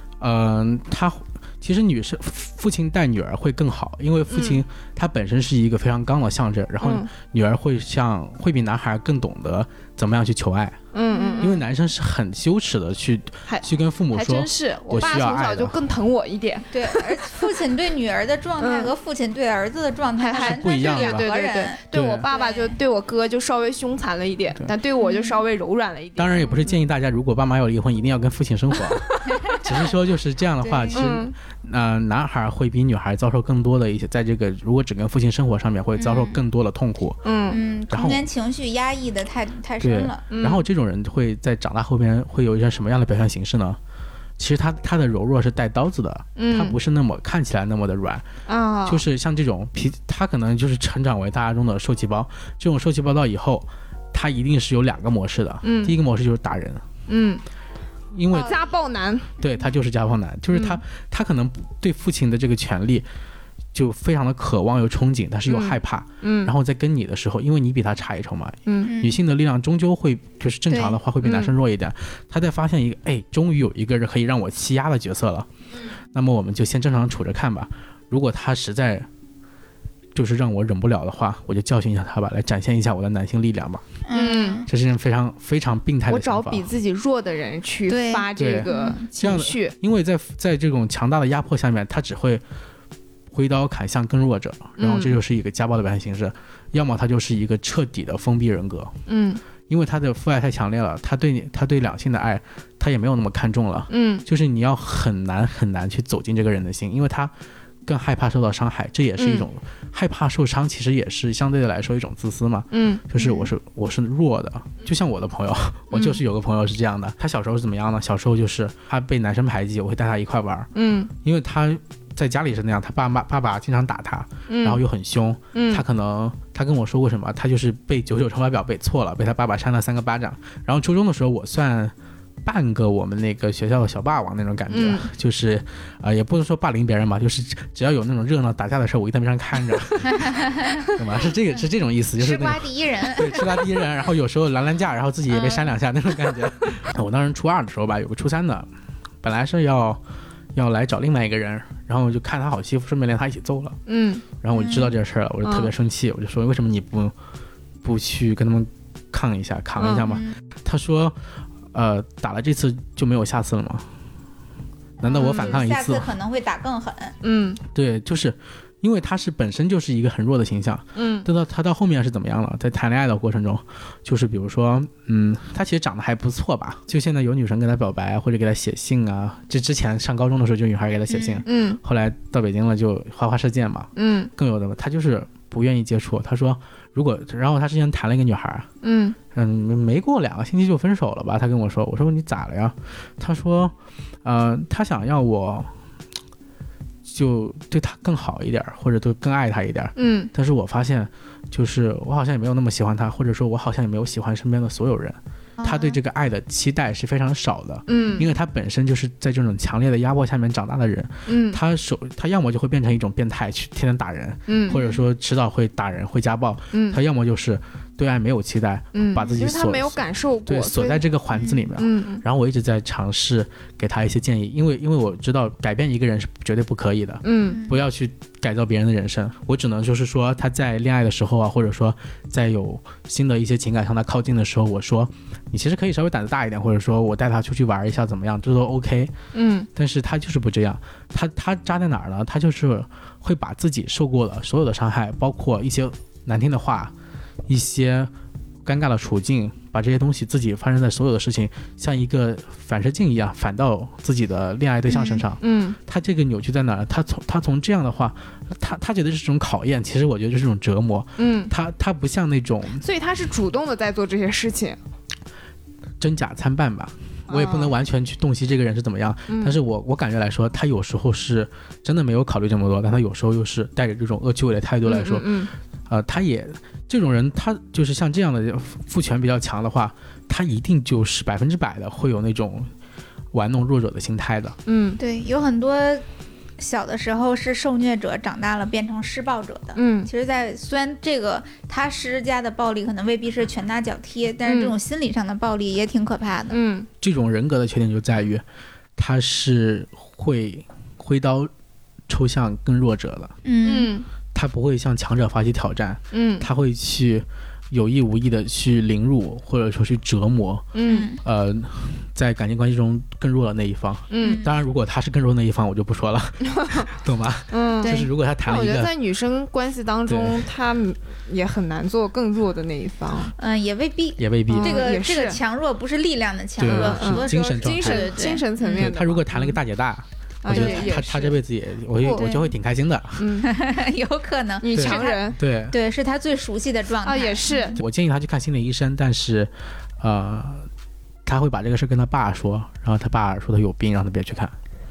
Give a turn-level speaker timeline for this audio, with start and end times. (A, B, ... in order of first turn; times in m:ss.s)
0:00.2-0:10.8 A
0:04.3-0:04.6 B
0:06.8-0:07.1 B
0:10.9-0:11.5 B
0:11.1-0:11.6 C
0:11.4-0:15.8 A
0:13.5-0:17.1 B
0:16.7-0:21.8 C
0:18.6-0:18.9 B
0:20.2-0:26.6 B
0:20.3-0:21.3 A
0:21.9-0:22.3 A
0:22.3-0:22.8 C
0:25.0-0:25.4 C
0:26.2-0:37.2 A
0:30.6-0:31.0 C
0:30.9-0:31.3 B
0:36.0-0:36.3 C
0:37.2-0:37.6 B
0:37.5-0:40.2 C
0:37.9-0:38.2 A
0:39.8-0:43.8 A
0:40.3-0:40.6 B
0:44.4-0:48.3 A
0:46.4-0:46.8 B
0:48.5-0:49.0 B
0:48.8-0:56.8 A
0:55.6-0:55.9 B
0:57.1-0:57.4 B
0:58.1-0:58.6 A
0:58.3-0:59.3 B
0:59.4-1:03.1 A
1:00.5-1:00.8 B
1:03.7-1:15.5 A
1:05.5-1:06.5 B
1:08.8-1:09.2 C
1:10.7-1:11.0 C
1:11.2-1:11.5 B
1:16.1-1:19.1 A
1:20.1-1:23.8 A
1:24.0-1:24.6 C
1:24.1-1:24.6 B
1:24.6-1:26.7 A
1:26.1-1:29.7 B
1:27.9-1:29.0 C
1:28.4-1:32.4 A
1:33.3-1:39.0 A
1:34.8-1:35.1 B
1:39.1-1:39.4 B
1:39.7-1:47.3 A
1:43.9-1:44.2 B
1:47.8-2:00.7 A
1:49.2-1:49.5 B
1:52.7-1:53.0 B
1:55.9-1:56.2 B
2:00.7-2:01.1 B
2:01.2-2:28.7 A
2:04.5-2:04.8 B
2:05.5-2:05.8 B
2:14.7-2:15.1 B
2:22.2-2:23.4 C
2:29.2-2:30.0 A
2:30.5-2:33.8 A
2:33.9-2:34.2 B
2:34.4-2:37.1 A
2:34.5-2:34.9 C
2:35.4-2:35.7 B
2:37.8-2:43.9 A
2:39.8-2:40.1 B
2:45.0-2:47.1 C
2:45.0-2:46.1 A
2:45.2-2:45.6 B
2:47.2-2:47.6 B
2:47.7-3:08.7 A
2:51.0-2:51.2 B
3:01.1-3:01.4 C
3:01.4-3:01.8 B
3:04.0-3:04.3 B
3:08.8-3:09.2 B
3:09.3-3:15.8 A
3:17.0-3:59.1 A
3:20.0-3:20.3 B
3:25.6-3:26.0 C
3:27.9-3:28.3 B
3:31.3-3:31.6 B
3:34.5-3:34.8 B
3:34.7-3:35.0 C
3:36.7-3:37.0 B
3:38.9-3:41.0 B
3:41.8-3:42.2 B
3:47.2-3:47.6 B
3:47.5-3:47.7 C
3:59.3-3:59.7 B
3:59.7-4:06.9 A
4:07.4-4:08.1 A
4:08.6-4:22.9 A
4:14.9-4:15.8 B
4:21.2-4:21.5 B
4:22.8-4:24.8 B
4:26.0-4:42.7 A
4:27.3-4:27.7 B
4:29.3-4:29.6 B
4:34.8-4:35.5 B
4:43.3-4:44.6 A
4:44.6-4:45.0 B
4:45.0-4:46.0 C
4:46.6-4:56.6 C
4:49.8-4:50.1 B
4:54.4-4:54.7 B
4:56.5-4:56.9 B
4:57.0-4:58.4 A
4:59.0-5:01.5 A
5:02.1-5:03.4 A
5:03.4-5:03.9 C
5:03.6-5:04.1 B
5:04.3-5:18.9 A
5:06.1-5:06.5 B
5:10.7-5:11.0 B
5:10.8-5:11.2 C
5:14.1-5:14.4 B
5:16.6-5:16.8 B
5:17.5-5:23.3 B
5:20.1-5:20.4 A
5:23.4-5:28.8 C
5:24.2-5:24.8 A
5:24.5-5:25.4 B
5:26.6-5:28.2 A
5:26.7-5:29.6 B
5:28.8-5:33.4 A
5:30.4-5:31.4 B
5:30.5-5:30.9 C
5:32.0-5:32.5 B
5:33.2-5:33.5 B
5:33.4-5:37.8 C
5:34.6-5:35.4 B
5:34.7-5:35.8 A
5:37.0-5:37.8 B
5:37.7-5:40.7 A
5:41.2-5:44.5 A